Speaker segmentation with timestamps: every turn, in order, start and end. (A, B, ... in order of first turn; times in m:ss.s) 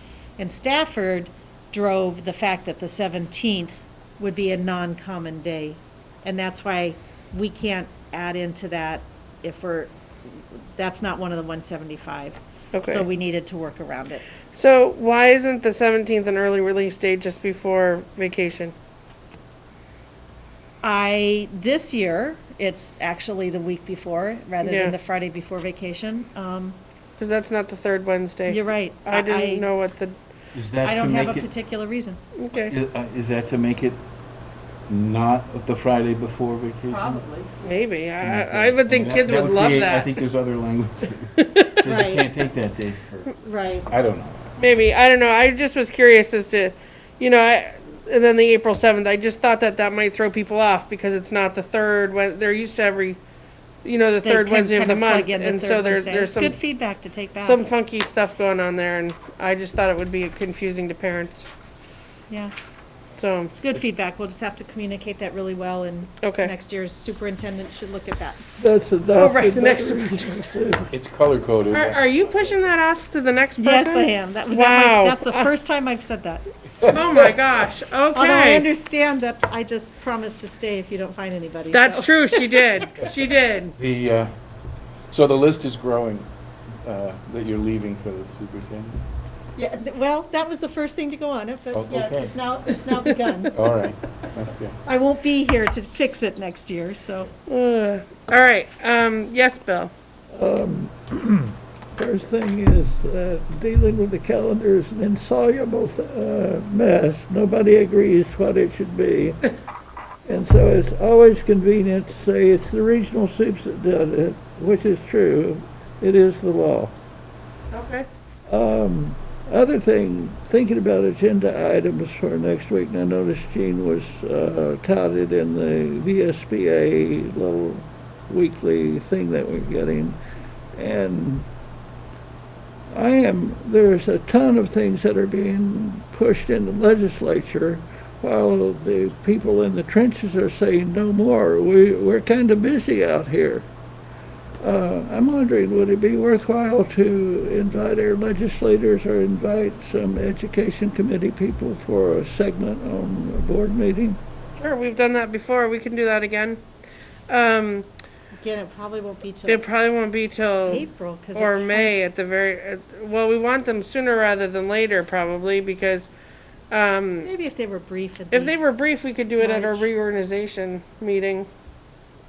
0:00.4-0:14.2 A
0:12.7-0:13.1 B
0:14.5-0:18.7 B
0:20.8-0:26.8 A
0:24.6-0:25.0 B
0:27.2-0:30.2 B
0:28.5-0:29.7 A
0:30.5-0:31.4 C
0:30.8-0:32.2 A
0:32.4-0:32.8 B
0:32.6-0:34.0 C
0:34.9-0:37.2 C
0:36.9-0:37.5 A
0:37.6-0:40.1 B
0:38.2-0:43.3 C
0:41.4-0:41.7 B
0:41.8-0:42.3 A
0:43.4-0:43.9 A
0:43.9-0:44.4 C
0:44.6-0:53.2 B
0:53.8-0:56.6 B
0:54.2-0:57.6 A
0:57.4-1:01.5 B
1:03.2-1:03.7 B
1:03.5-1:08.4 A
1:06.2-1:06.5 B
1:08.6-1:10.9 D
1:09.2-1:10.5 B
1:10.9-1:12.0 C
1:11.7-1:15.5 B
1:13.6-1:16.4 A
1:16.9-1:18.7 B
1:18.1-1:22.8 A
1:21.7-1:23.8 B
1:23.8-1:24.3 C
1:25.1-1:26.3 C
1:26.8-1:29.0 C
1:29.6-1:33.6 A
1:31.7-1:32.3 C
1:33.6-1:34.8 C
1:34.8-1:37.3 A
1:37.5-1:39.9 B
1:40.3-1:49.4 D
1:50.3-1:57.0 D
1:57.7-1:58.1 B
1:58.5-2:10.2 D
2:10.7-2:11.5 D
2:12.9-2:23.7 D
2:24.6-2:34.2 D
2:34.6-2:36.6 B
2:37.3-2:37.9 B
2:38.4-2:39.6 A
2:39.5-2:46.1 B
2:40.6-2:41.9 A
2:46.7-2:47.3 B
2:47.2-2:48.5 A
2:48.3-2:51.5 B
2:49.4-2:49.9 A